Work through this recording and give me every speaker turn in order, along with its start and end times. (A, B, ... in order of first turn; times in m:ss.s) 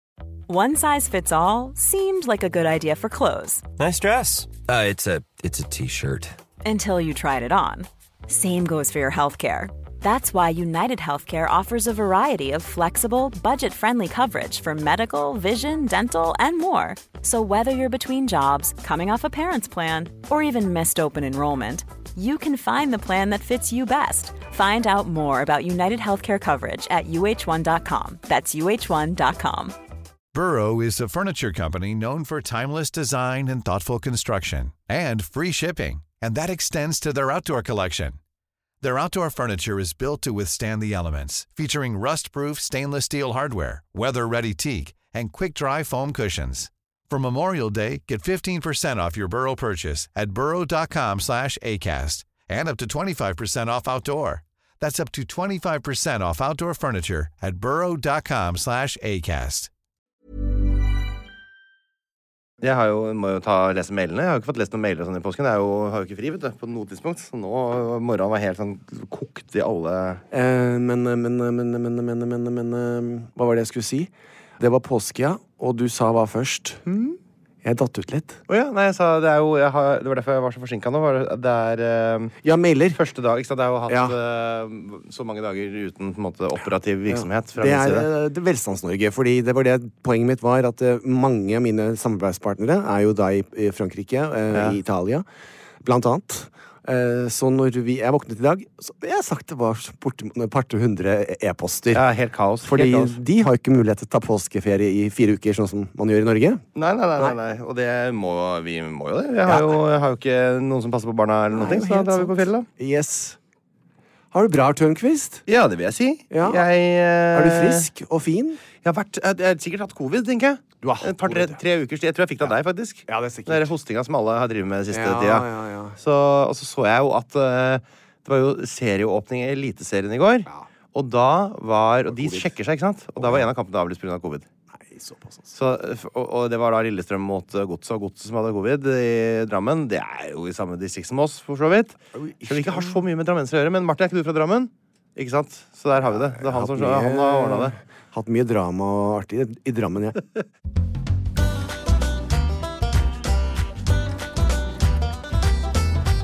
0:00.5-0:03.6 A
0:03.8-0:06.3 B
0:06.6-0:29.7 A
0:30.3-0:38.2 C
0:38.8-0:59.7 C
1:02.6-1:10.2 D
1:10.3-1:16.8 E
1:16.8-1:17.2 D
1:17.6-1:18.4 E
1:18.5-1:22.3 D
1:22.4-1:23.0 E
1:22.9-1:28.1 D
1:23.9-1:24.2 E
1:27.1-1:35.2 E
1:34.5-1:34.8 D
1:35.8-1:42.0 E
1:41.9-1:43.2 D
1:42.6-1:46.6 E
1:46.7-1:52.6 D
1:49.4-1:49.8 E
1:51.5-1:53.4 E
1:54.3-1:55.4 E
1:55.5-1:57.9 D
1:56.3-1:56.6 E
1:57.3-1:58.6 E
1:58.8-2:14.4 D
2:00.8-2:01.6 E
2:03.1-2:03.7 E
2:04.9-2:06.0 E
2:12.1-2:12.5 E
2:13.2-2:13.4 E
2:14.7-2:15.5 E
2:15.5-2:27.8 D
2:22.1-2:23.0 E
2:26.4-2:30.2 E